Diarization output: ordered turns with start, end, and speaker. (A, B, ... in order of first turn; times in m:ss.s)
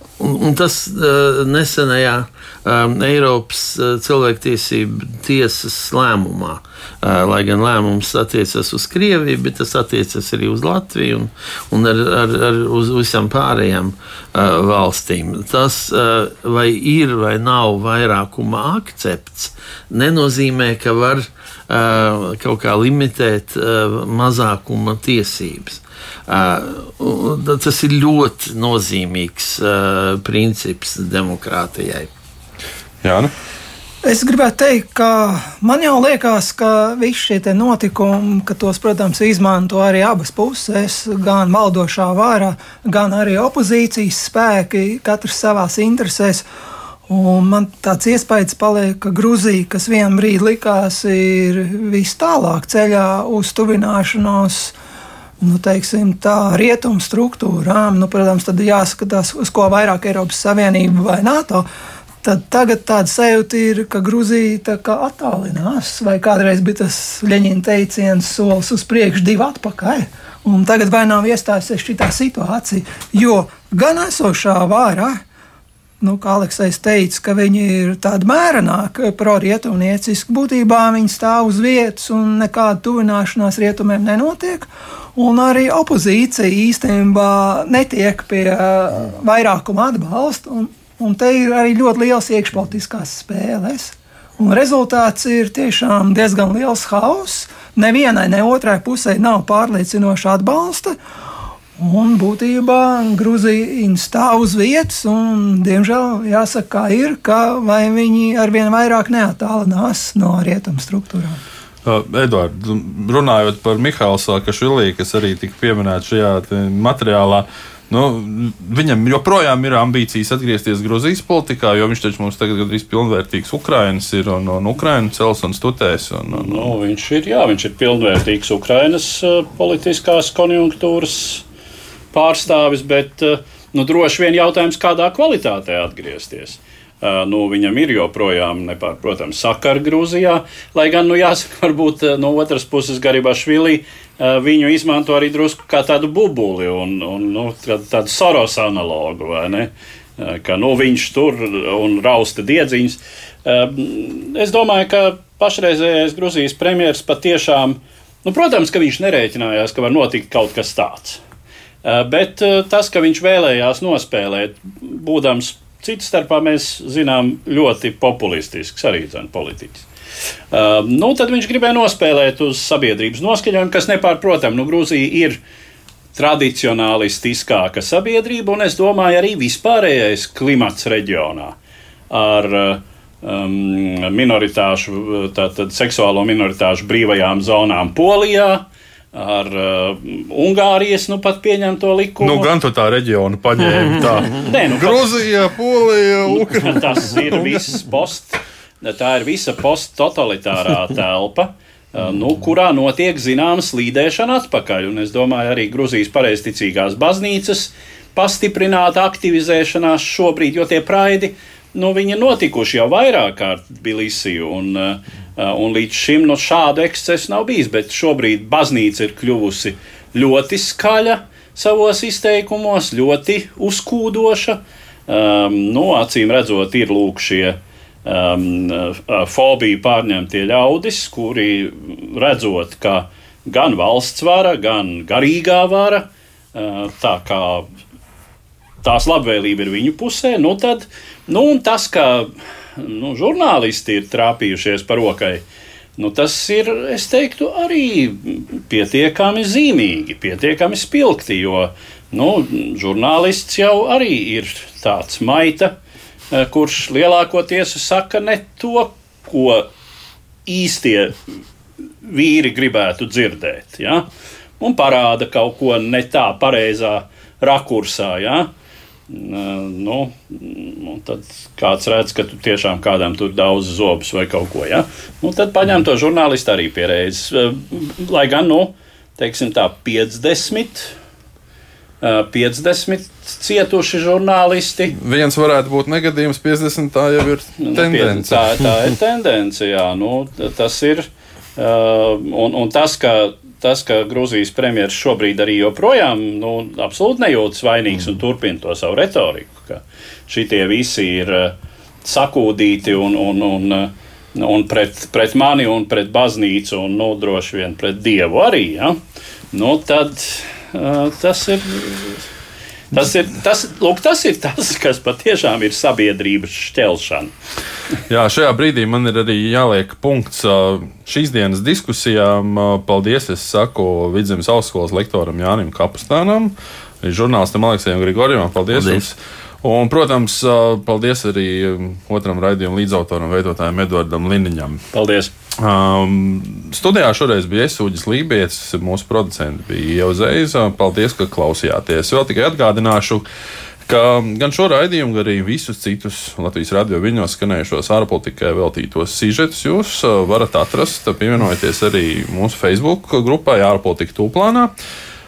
0:00.2-0:32.1 A
0:33.0-0:33.3 B
0:34.0-0:46.4 C
0:47.1-0:54.7 C
0:55.4-1:01.6 C
1:02.2-1:15.2 C
1:16.0-1:41.0 C
1:41.8-1:51.4 C
1:51.8-2:06.7 B
2:06.3-2:11.4 D
2:12.1-2:41.2 D
2:41.8-2:49.8 D
2:50.5-2:55.4 D
2:56.1-3:01.5 D
3:02.1-3:12.5 D
3:12.2-3:17.8 B
3:14.4-3:15.1 D
3:16.3-3:57.7 D
3:58.8-4:05.4 D
4:06.0-4:15.8 D
4:16.3-4:19.7 D
4:20.5-4:21.2 D
4:22.0-4:24.1 D
4:24.6-4:28.5 D
4:29.1-4:40.9 D
4:42.0-4:45.0 D
4:45.0-4:48.5 B
4:47.6-5:09.0 D
5:09.5-5:12.2 D
5:12.9-5:17.3 D
5:18.1-5:34.8 B
5:28.7-5:29.0 A
5:34.9-5:35.3 D
5:35.6-5:43.2 B
5:43.8-5:54.7 B